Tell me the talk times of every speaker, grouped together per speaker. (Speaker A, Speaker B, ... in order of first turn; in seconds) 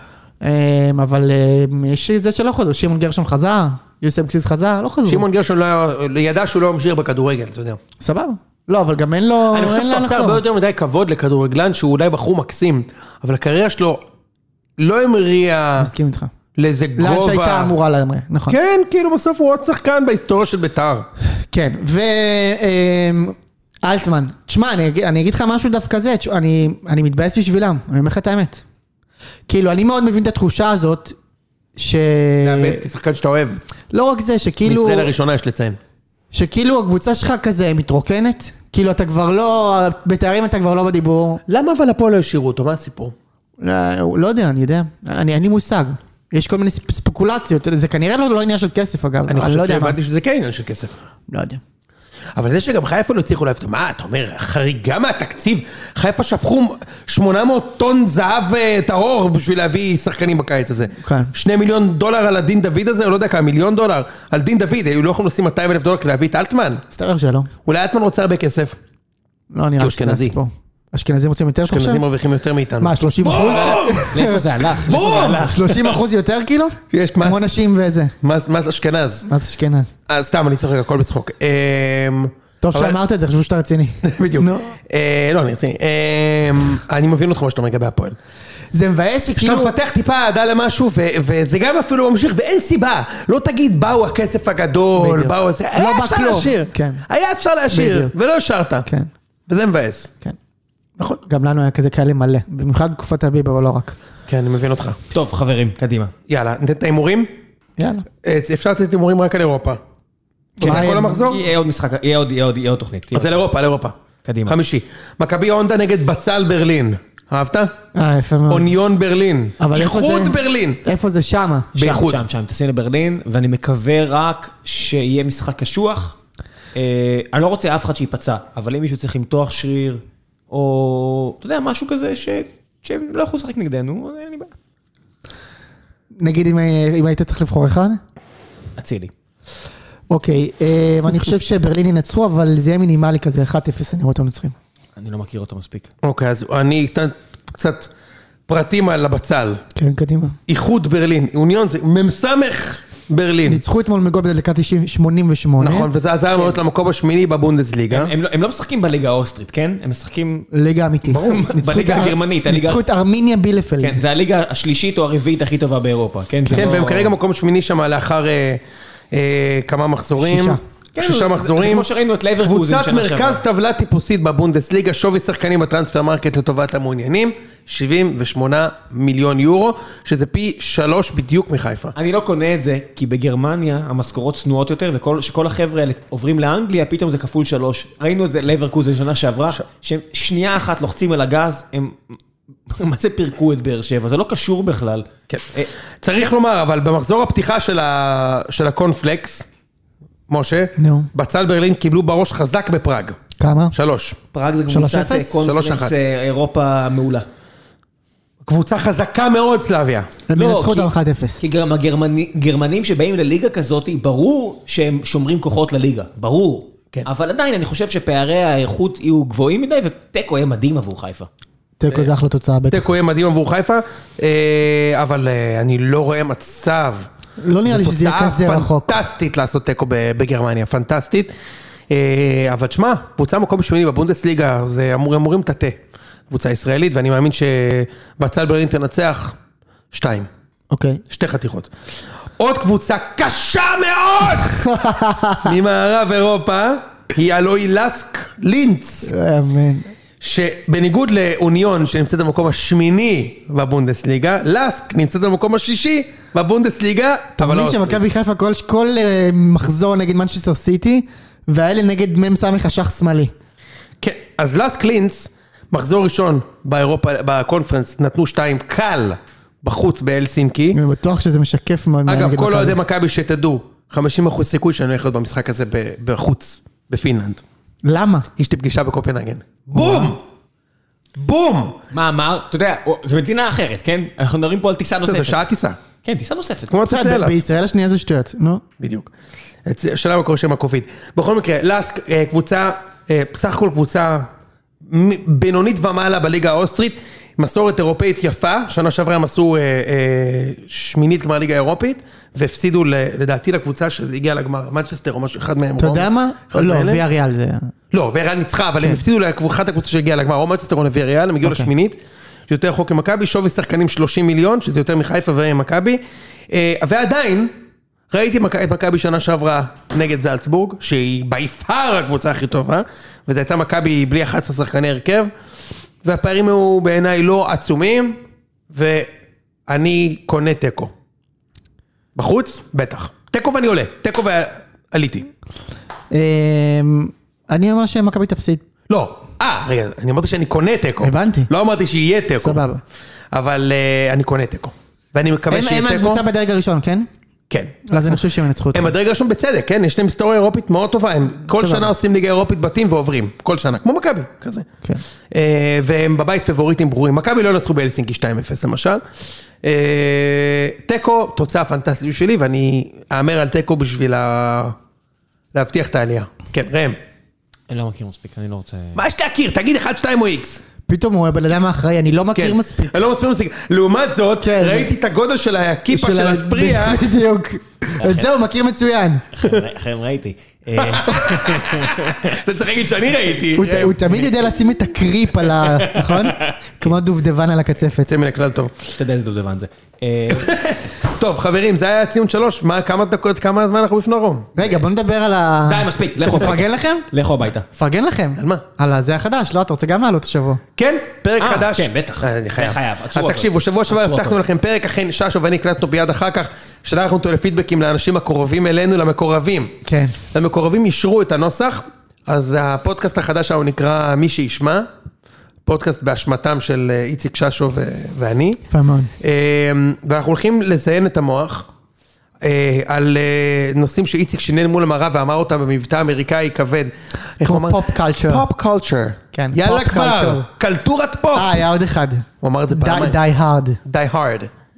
Speaker A: 0.4-5.2, 8.0-10.4, 15.8-16.3, 17.0-18.6, 21.5-28.6, 29.5-31.2, 31.8-32.8, 33.9-35.1, 36.3-41.4, 43.6-50.0, 51.3-51.6, 61.0-61.3, 66.9-67.5, 69.5-72.0, 72.8-74.5, 75.2-78.1, 79.3-79.9, 82.6-84.7, 88.7-89.7, 95.0-97.0, 97.7-98.1, 101.2-104.0, 107.8-108.0, 110.6-111.2, 117.9-118.7, 119.6-121.8, 136.2-138.0, 140.1-144.5, 149.7-150.4, 153.4-155.9, 160.5-164.0, 170.2-170.6, 200.8-201.1, 203.4-203.7, 204.7-205.3, 210.3-211.4, 221.8-222.8, 227.4-229.0, 240.7-241.0, 244.3-245.6, 249.1-249.9, 257.4-263.3, 270.7-272.8, 277.8-278.3, 279.7-280.1, 286.9-288.6, 305.8-307.7, 311.4-311.7, 336.1-338.6, 341.0-341.5, 342.4-342.8, 345.5-347.1, 347.9-348.9, 351.5-351.9, 370.9-373.0, 374.4-374.9, 375.9-379.3, 383.6-388.1, 394.5-397.1, 397.7-400.6, 409.8-410.1, 418.7-419.1, 427.4-428.4, 429.3-430.5, 431.3-433.8
Speaker B: 5.0-7.8, 9.5-14.0, 14.8-15.9, 16.5-17.7, 18.5-21.1, 32.4-33.6, 34.6-35.8, 41.5-43.1, 49.3-50.9, 52.4-66.8, 67.7-68.8, 69.8-70.3, 71.7-74.3, 74.8-75.5, 76.9-77.5, 78.2-79.2, 80.1-83.0, 84.0-88.2, 89.3-98.9, 99.5-100.1, 104.3-105.0, 106.3-107.3, 108.2-109.8, 110.6-111.4, 113.1-117.7, 118.5-120.8, 121.7-122.2, 146.0-147.9, 148.5-149.6, 150.5-153.6, 155.6-158.1, 166.5-171.9, 172.4-181.9, 195.3-199.4, 200.3-203.2, 203.7-204.2, 205.4-205.9, 208.4-210.1, 222.7-227.1, 227.6-231.3, 231.9-235.8, 236.3-239.3, 239.9-240.3, 241.1-241.7, 242.4-244.8, 245.4-249.1, 250.2-258.1, 264.0-270.8, 272.1-277.4, 278.4-280.2, 281.2-281.8, 285.0-285.8, 286.7-287.4, 288.8-289.1, 289.6-294.3, 294.9-307.0, 307.9-312.0, 312.5-317.5, 318.1-325.3, 326.0-329.1, 329.7-330.9, 332.1-335.3, 338.9-342.6, 343.3-346.2, 347.5-348.2, 348.7-354.7, 355.3-359.0, 359.6-364.8, 365.5-367.0, 368.9-370.6, 372.3-377.1, 380.8-384.0, 388.0-388.9, 390.3-394.5, 398.4-398.6, 400.8-409.8, 410.3-414.9, 415.6-418.6, 419.2-421.7, 422.4-431.6, 432.4-433.2, 433.8-434.5
Speaker C: 73.5-76.0, 105.1-106.1, 110.6-113.4, 114.2-114.5, 121.8-126.2, 126.7-134.5, 138.8-139.1, 144.9-145.9, 157.9-160.5, 161.1-162.8, 163.8-167.2, 170.9-173.4, 181.9-195.7, 204.3-207.2, 210.3-221.3, 281.9-285.4, 286.0-286.7, 367.7-369.0, 378.0-378.3, 379.4-382.3, 385.6-386.9, 389.0-390.8, 395.7-397.6, 401.4-404.4